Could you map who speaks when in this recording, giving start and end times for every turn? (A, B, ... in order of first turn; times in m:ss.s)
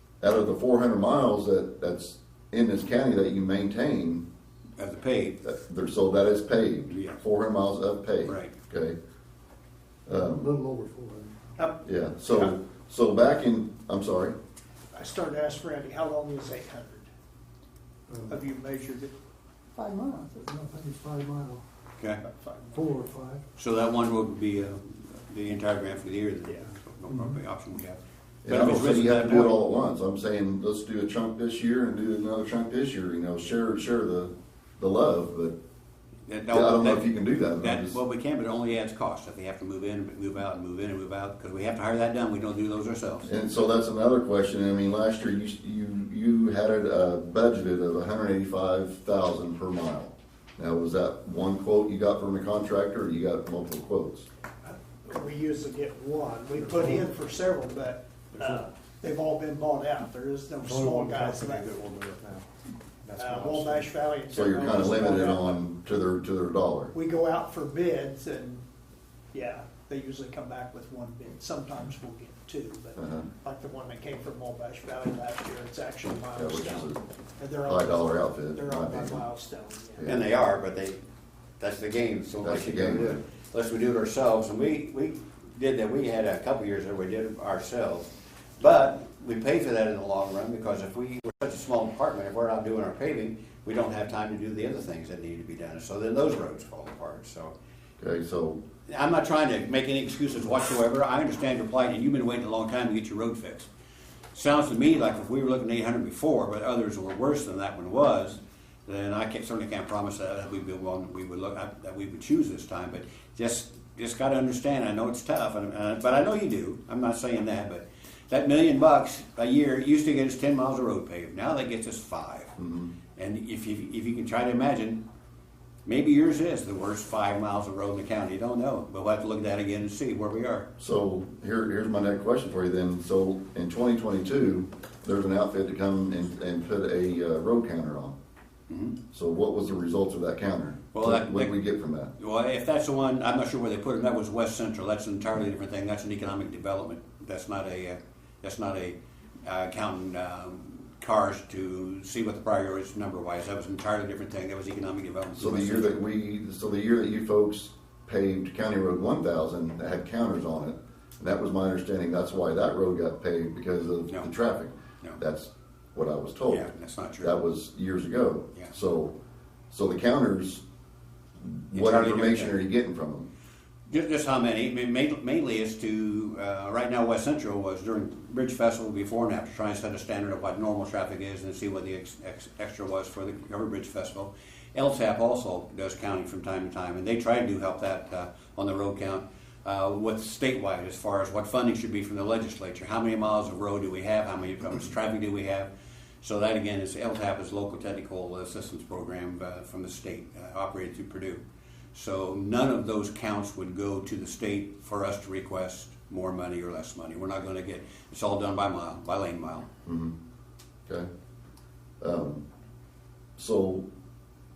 0:00.2-0:04.3 A
0:04.8-0:05.4 B
0:05.4-0:09.0 A
0:06.9-0:07.2 B
0:08.2-0:08.5 B
0:10.0-0:10.5 A
0:10.1-0:11.7 C
0:11.8-0:14.3 A
0:14.9-0:17.1 D
0:18.1-0:18.4 C
0:18.3-0:19.1 D
0:19.7-0:21.6 C
0:22.0-0:22.2 B
0:22.2-0:22.8 D
0:22.7-0:23.4 C
0:23.6-0:29.6 B
0:27.1-0:27.4 C
0:28.4-0:35.6 A
0:36.3-0:43.3 B
0:36.5-0:38.0 A
0:43.2-0:54.3 A
0:54.6-1:01.7 D
0:56.6-0:57.0 C
0:58.3-0:58.6 C
1:00.6-1:02.4 C
1:03.0-1:03.9 C
1:03.2-1:05.6 D
1:04.3-1:06.9 A
1:06.9-1:08.6 D
1:09.3-1:20.0 D
1:13.0-1:13.3 A
1:16.3-1:17.0 A
1:17.6-1:19.2 A
1:20.0-1:20.2 A
1:20.0-1:21.0 B
1:21.6-1:37.5 B
1:22.4-1:23.2 A
1:38.0-1:38.6 A
1:38.9-1:43.7 B
1:44.3-2:02.5 B
2:02.6-2:02.9 A
2:03.2-2:05.0 B
2:05.8-2:10.7 B
2:10.8-2:18.1 A
2:18.7-2:19.0 B
2:19.1-2:22.1 A
2:20.9-2:21.6 B
2:22.2-2:36.0 B
2:35.4-2:46.7 A
2:46.5-2:47.3 B
2:47.2-2:49.2 A
2:49.7-2:50.6 A
2:51.4-2:53.3 A
2:51.7-2:52.6 B
2:53.9-3:15.7 B
3:16.2-3:21.4 B
3:21.9-3:29.7 B
3:29.8-3:30.1 A
3:32.0-3:32.4 A
3:33.4-3:33.8 A